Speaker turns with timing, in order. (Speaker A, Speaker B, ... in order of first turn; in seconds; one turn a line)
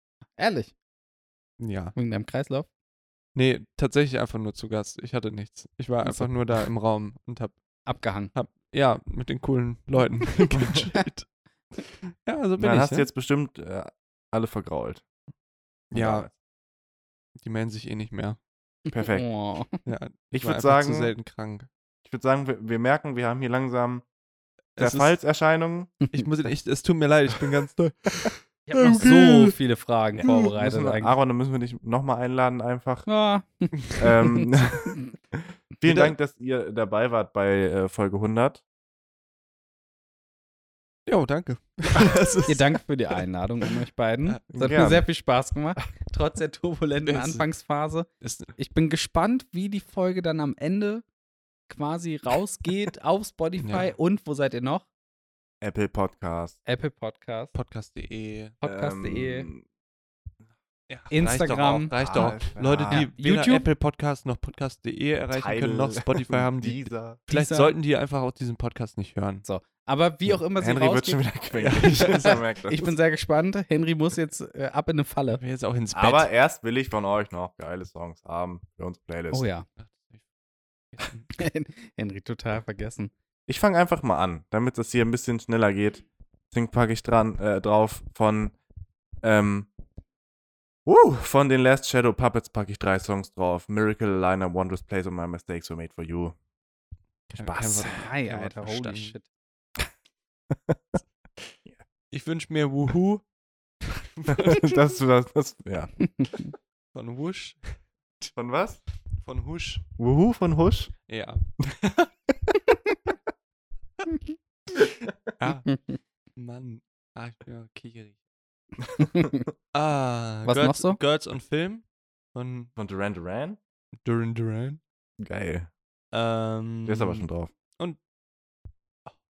Speaker A: 0.4-0.7
Speaker B: 1.6-1.9
Speaker A: 1.9-2.7
Speaker B: 3.3-7.5
Speaker A: 7.8-8.3
Speaker B: 8.3-11.3
Speaker C: 10.5-10.8
Speaker B: 11.8-13.1
Speaker C: 12.6-15.0
Speaker B: 15.9-16.3
Speaker C: 15.9-16.3
Speaker B: 17.4-18.4
Speaker A: 18.9-19.8
Speaker C: 18.9-19.3
Speaker B: 19.9-21.7
Speaker C: 20.3-21.1
Speaker C: 22.0-24.0
Speaker B: 24.8-25.1
Speaker C: 24.8-25.9
Speaker B: 26.1-28.4
Speaker A: 28.7-31.1
Speaker C: 28.7-29.1
Speaker C: 30.1-33.1
Speaker A: 33.1-35.1
Speaker C: 34.0-38.6
Speaker B: 35.9-36.1
Speaker B: 41.1-42.8
Speaker A: 42.5-51.0
Speaker C: 44.5-45.0
Speaker B: 47.0-47.4
Speaker B: 48.2-48.5
Speaker A: 51.7-54.9
Speaker B: 53.6-53.9
Speaker C: 55.6-56.6
Speaker A: 56.6-57.5
Speaker B: 57.5-58.5
Speaker A: 58.6-59.5
Speaker C: 58.6-59.6
Speaker B: 60.9-69.4
Speaker A: 61.1-62.4
Speaker C: 61.9-63.0
Speaker A: 62.9-63.6
Speaker C: 65.3-67.2
Speaker A: 67.3-67.7
Speaker A: 69.4-71.2
Speaker C: 70.6-72.9
Speaker B: 71.5-72.4
Speaker A: 71.9-75.4
Speaker B: 75.4-76.3
Speaker C: 75.9-79.5
Speaker A: 79.3-79.7
Speaker B: 79.8-80.2
Speaker B: 80.9-81.3
Speaker A: 81.4-83.1
Speaker C: 83.5-88.5
Speaker C: 89.2-89.7
Speaker C: 90.8-96.3
Speaker B: 97.3-99.1
Speaker C: 97.3-97.7
Speaker A: 97.4-99.2
Speaker C: 100.5-101.0
Speaker B: 102.1-103.2
Speaker B: 103.8-104.8
Speaker C: 104.3-105.9
Speaker A: 106.0-106.5
Speaker B: 106.9-108.3
Speaker C: 108.3-108.8
Speaker B: 109.2-109.8
Speaker C: 110.0-110.9
Speaker B: 111.1-112.1
Speaker B: 115.4-115.8
Speaker A: 115.7-116.0
Speaker B: 116.3-118.2
Speaker A: 119.1-119.4
Speaker B: 119.7-122.7
Speaker A: 120.4-121.0
Speaker C: 122.8-123.6
Speaker B: 124.0-124.8
Speaker C: 125.2-125.7
Speaker B: 126.1-127.2
Speaker C: 126.8-127.5